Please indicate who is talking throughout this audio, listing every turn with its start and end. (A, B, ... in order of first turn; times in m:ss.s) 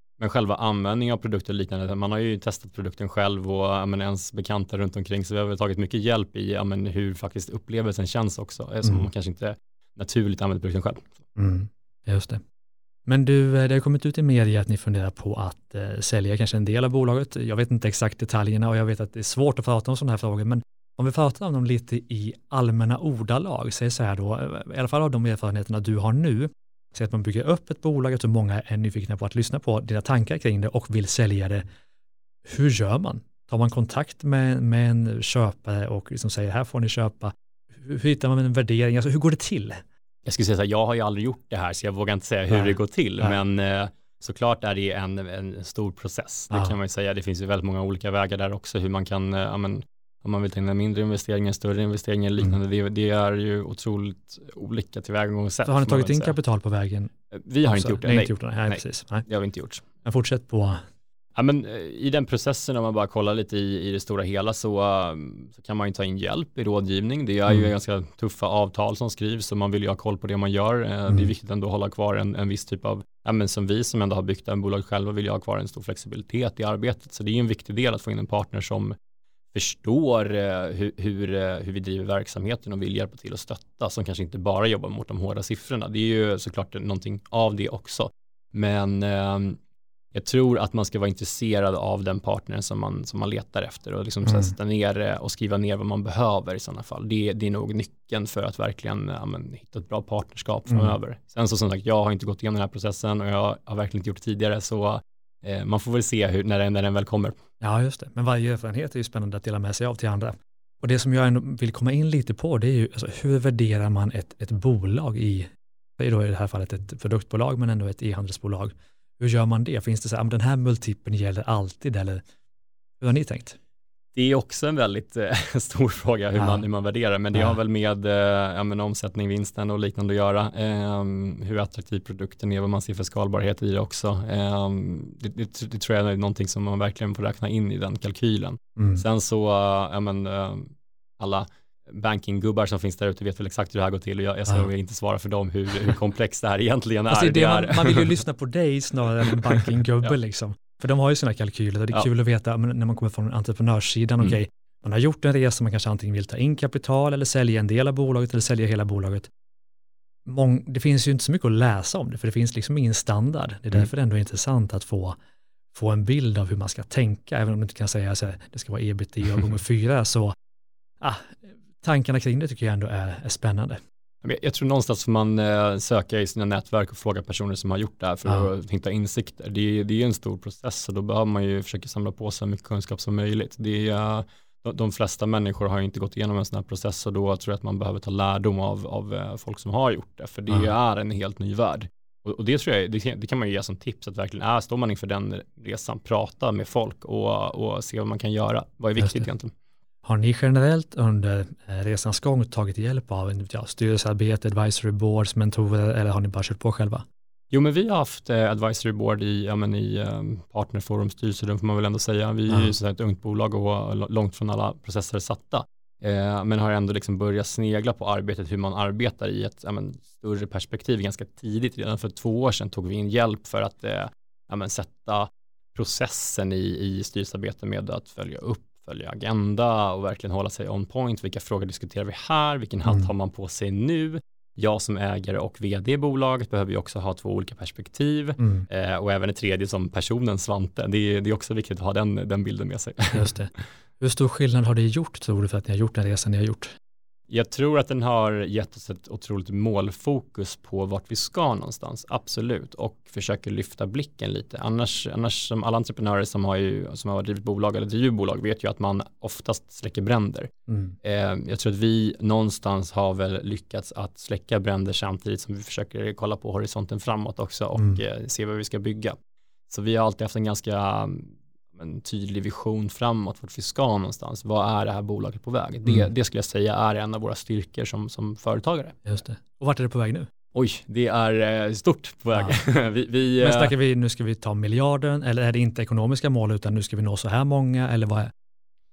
0:00.2-0:11.1 A
0:08.8-0:09.1 B
0:11.4-0:12.4 B
0:13.0-0:31.6 B
0:32.4-0:39.8 B
0:40.2-0:56.4 A
0:42.5-0:43.4 B
0:55.6-0:57.1 B
0:57.3-0:59.8 A
0:57.6-0:59.2 B
1:00.0-1:00.8 B
1:01.3-1:18.9 A
1:19.5-1:29.6 A
1:30.1-1:47.4 A
1:34.2-1:34.5 B
1:40.7-1:41.0 B
1:47.6-2:02.2 B
2:03.0-2:03.6 B
2:04.2-2:28.2 A
2:18.8-2:19.0 B
2:27.1-2:39.3 B
2:29.3-2:29.7 A
2:40.2-2:45.2 B
2:45.7-2:50.3 B
2:51.0-2:53.8 B
2:54.2-3:19.5 A
3:20.0-3:27.0 B
3:27.5-4:03.3 A
3:58.4-3:58.6 B
4:03.1-4:06.8 B
4:07.3-4:29.2 A
4:20.7-4:20.9 B
4:29.7-4:39.0 A
4:39.0-4:40.3 B
4:40.5-4:43.7 A
4:43.4-4:48.3 B